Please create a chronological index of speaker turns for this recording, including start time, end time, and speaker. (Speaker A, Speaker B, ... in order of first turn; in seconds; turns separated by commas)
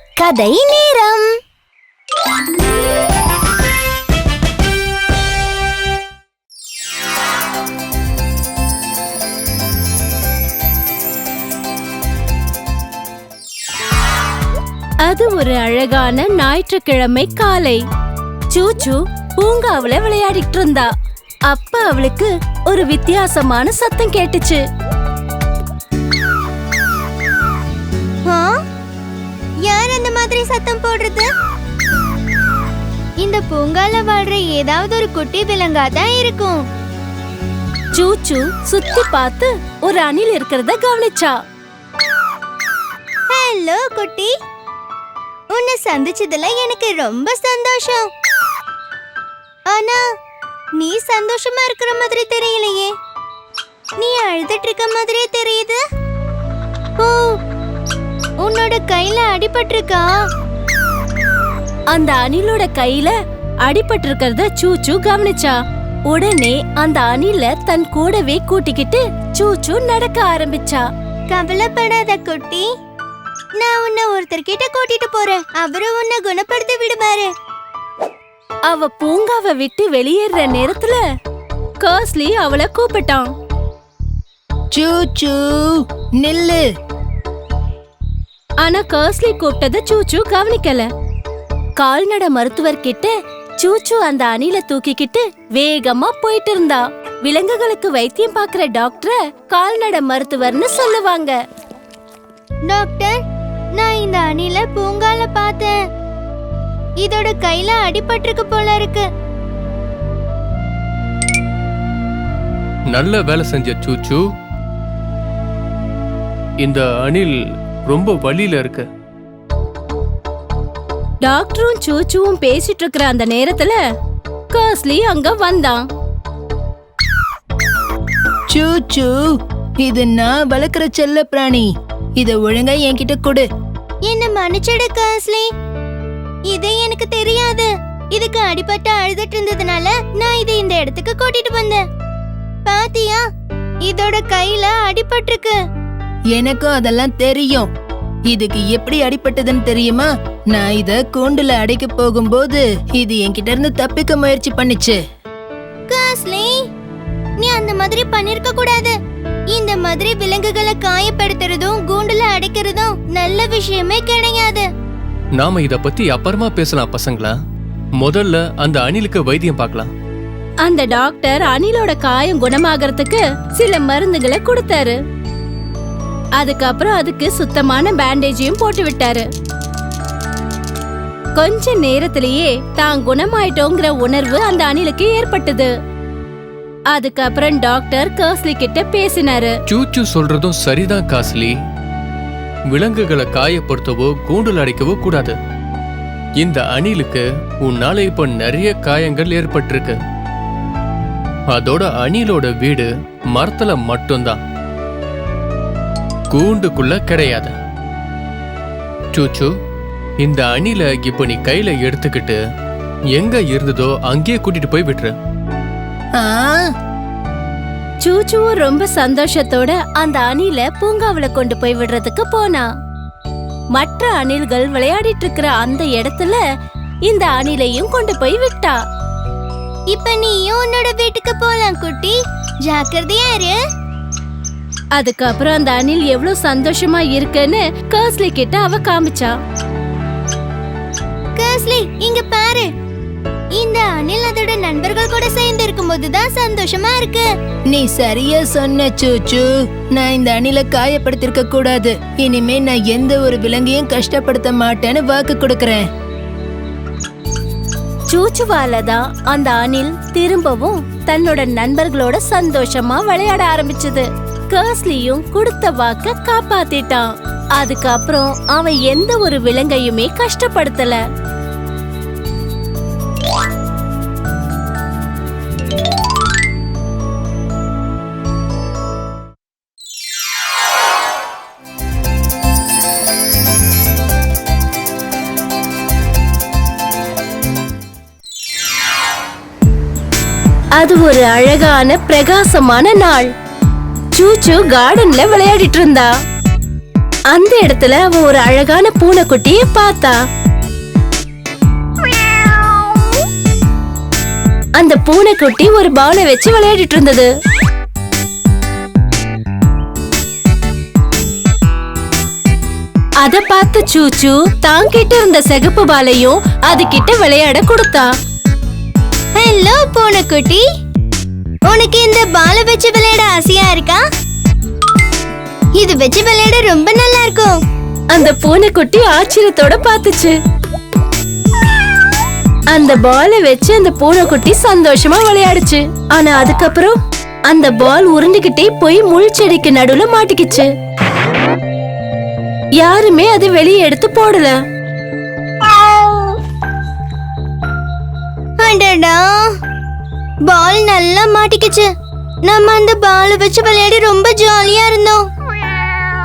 Speaker A: 0.2-1.3, Speaker B: 15.1-17.8, Speaker B: 18.5-20.9, Speaker B: 21.5-24.6, Speaker A: 29.7-31.3, Speaker A: 33.2-36.6, Speaker B: 37.9-41.3, Speaker A: 43.3-44.3, Speaker A: 45.5-48.0, Speaker A: 49.7-50.0, Speaker A: 50.8-52.9, Speaker A: 54.0-55.8, Speaker A: 58.4-60.1, Speaker B: 61.9-65.6, Speaker B: 66.1-70.8, Speaker A: 71.3-72.7, Speaker A: 73.6-77.3, Speaker B: 78.7-81.0, Speaker B: 81.8-83.3, Speaker C: 84.7-86.6, Speaker B: 88.6-90.9, Speaker B: 91.8-101.4, Speaker A: 102.7-103.2, Speaker A: 103.8-105.7, Speaker A: 107.0-109.0, Speaker D: 112.9-114.2, Speaker D: 116.6-117.3, Speaker D: 117.9-118.9, Speaker B: 121.2-123.8, Speaker B: 124.5-125.8, Speaker C: 128.5-129.2, Speaker C: 129.8-131.7, Speaker C: 132.2-133.4, Speaker A: 134.1-135.5, Speaker A: 136.5-141.8, Speaker A: 142.7-143.2, Speaker A: 143.8-145.6, Speaker C: 146.3-147.7, Speaker C: 148.3-155.0, Speaker A: 155.9-156.5, Speaker A: 157.4-158.9, Speaker A: 159.5-164.7, Speaker D: 165.4-167.3, Speaker D: 168.0-169.9, Speaker B: 170.7-175.0, Speaker B: 176.4-179.3, Speaker B: 181.4-185.7, Speaker B: 186.9-189.6, Speaker D: 189.7-191.5, Speaker D: 192.7-195.3, Speaker D: 196.4-200.0, Speaker D: 201.5-204.4, Speaker D: 206.3-207.5, Speaker D: 209.1-209.5, Speaker D: 210.2-212.4, Speaker D: 213.2-215.1, Speaker C: 216.2-216.6, Speaker B: 218.0-222.7, Speaker B: 223.8-226.4, Speaker B: 227.1-228.8, Speaker A: 229.9-232.1, Speaker A: 232.7-233.6, Speaker B: 235.0-239.3, Speaker A: 241.4-242.7, Speaker A: 243.6-247.3, Speaker C: 247.7-255.8, Speaker B: 258.1-271.0, Speaker B: 290.8-293.3, Speaker B: 294.1-296.1, Speaker B: 297.3-300.2, Speaker B: 304.8-307.3, Speaker B: 313.2-318.1, Speaker A: 319.4-320.6, Speaker A: 321.7-324.0, Speaker A: 325.8-327.6, Speaker B: 328.1-330.4, Speaker B: 332.7-337.0, Speaker B: 337.5-340.7, Speaker B: 342.8-344.6, Speaker A: 345.8-346.1, Speaker A: 348.6-349.2, Speaker A: 350.5-351.9, Speaker A: 352.5-355.2